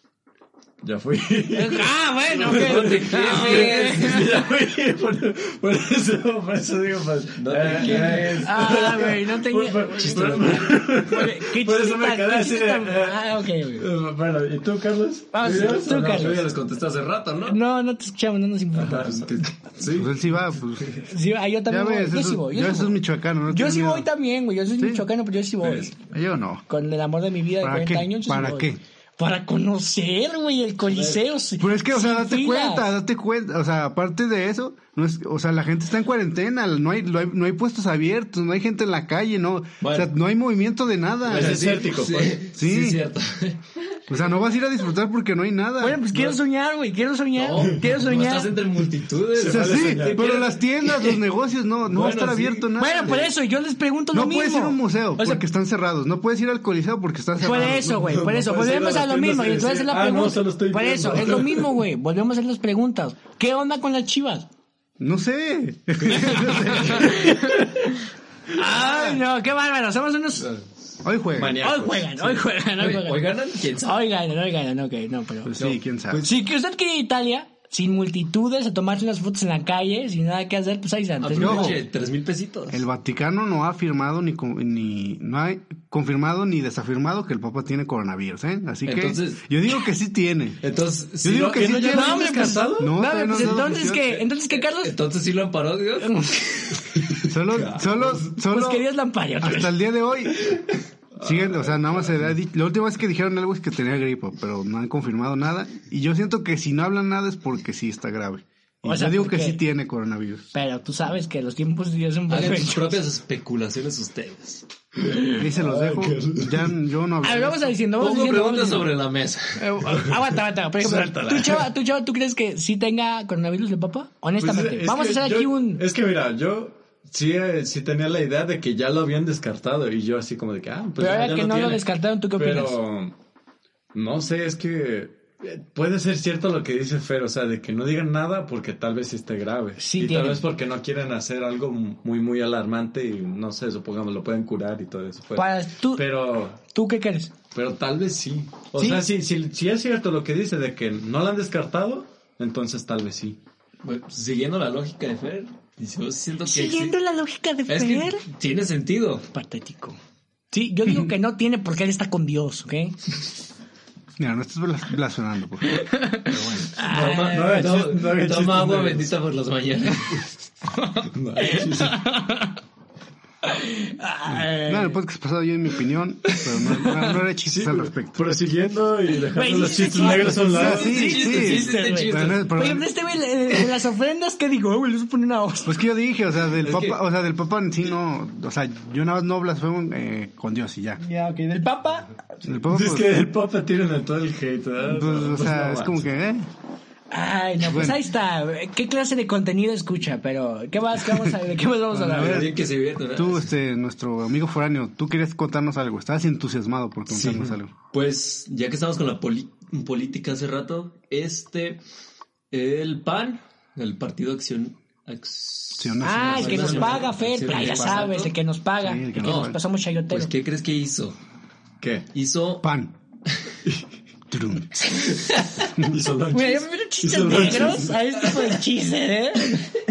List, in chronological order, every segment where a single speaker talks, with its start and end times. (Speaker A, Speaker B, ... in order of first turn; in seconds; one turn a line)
Speaker A: 0.8-16.5
Speaker B: 1.5-4.3
Speaker C: 2.4-4.3
Speaker C: 7.4-8.9
Speaker B: 7.8-13.9
Speaker C: 10.0-10.8
Speaker B: 15.3-16.5
Speaker C: 15.4-17.6
Speaker B: 17.5-19.3
Speaker A: 18.7-19.5
Speaker C: 19.0-20.1
Speaker D: 19.9-20.9
Speaker B: 21.0-26.0
Speaker D: 21.7-24.1
Speaker D: 24.8-25.1
Speaker C: 25.6-25.9
Speaker D: 26.1-26.6
Speaker B: 26.7-32.9
Speaker D: 27.6-28.8
Speaker C: 30.9-31.2
Speaker D: 31.6-41.8
Speaker C: 39.8-40.1
Speaker A: 41.3-42.5
Speaker C: 41.3-43.6
Speaker D: 42.5-43.0
Speaker D: 44.1-46.1
Speaker B: 45.8-48.5
Speaker C: 47.4-51.2
Speaker A: 49.4-50.5
Speaker D: 49.5-53.2
Speaker C: 51.9-53.3
Speaker B: 52.8-55.4
Speaker D: 54.1-58.1
Speaker B: 57.4-64.5
Speaker A: 57.7-61.8
Speaker D: 65.0-67.3
Speaker B: 66.1-70.5
Speaker C: 68.7-69.2
Speaker D: 71.0-71.6
Speaker A: 71.3-72.4
Speaker B: 71.6-75.5
Speaker C: 72.8-74.0
Speaker D: 75.5-76.2
Speaker C: 75.6-76.2
Speaker B: 76.1-81.8
Speaker C: 81.2-82.8
Speaker D: 81.4-81.8
Speaker D: 82.7-90.6
Speaker C: 88.9-89.4
Speaker C: 90.6-92.3
Speaker D: 91.2-92.2
Speaker A: 91.4-93.7
Speaker B: 91.8-95.0
Speaker D: 92.8-94.2
Speaker C: 94.6-96.2
Speaker B: 96.0-96.9
Speaker D: 97.2-98.9
Speaker C: 97.5-98.2
Speaker B: 98.5-99.8
Speaker D: 99.4-100.6
Speaker D: 101.2-110.5
Speaker A: 101.2-101.9
Speaker B: 108.8-109.6
Speaker B: 110.5-113.0
Speaker C: 112.3-114.7
Speaker A: 115.1-116.7
Speaker D: 115.4-117.7
Speaker B: 117.2-118.9
Speaker C: 118.0-119.8
Speaker B: 119.6-125.8
Speaker A: 120.8-121.6
Speaker A: 124.4-133.1
Speaker B: 131.0-132.8
Speaker A: 133.9-146.6
Speaker B: 139.8-140.4
Speaker B: 145.4-147.3
Speaker A: 147.5-153.4
Speaker B: 148.8-149.0
Speaker C: 153.8-157.0
Speaker B: 156.5-158.2
Speaker C: 157.7-159.3
Speaker B: 159.3-160.0
Speaker B: 160.5-163.0
Speaker D: 164.2-166.6
Speaker B: 165.7-167.5
Speaker A: 166.8-169.1
Speaker C: 166.9-170.2
Speaker B: 170.8-172.6
Speaker A: 171.1-172.0
Speaker B: 173.4-175.0
Speaker D: 174.3-178.2
Speaker A: 177.5-181.1
Speaker B: 179.3-185.8
Speaker D: 180.5-182.9
Speaker C: 180.6-182.7
Speaker D: 185.7-191.0
Speaker C: 186.6-187.0
Speaker B: 191.0-192.2
Speaker D: 192.4-193.3
Speaker A: 192.7-196.1
Speaker D: 194.8-196.5
Speaker B: 197.1-202.5
Speaker D: 197.6-198.0
Speaker D: 201.9-207.7
Speaker C: 202.1-203.5
Speaker C: 207.1-211.8
Speaker C: 212.5-218.3
Speaker D: 215.8-216.8
Speaker B: 216.0-220.3
Speaker A: 216.5-217.0
Speaker D: 217.6-218.0
Speaker D: 218.8-219.6
Speaker C: 219.2-219.6
Speaker C: 220.1-221.2
Speaker A: 221.8-222.1
Speaker C: 222.1-222.7
Speaker D: 222.6-222.9
Speaker D: 224.3-224.8
Speaker A: 225.8-227.9
Speaker B: 226.3-229.8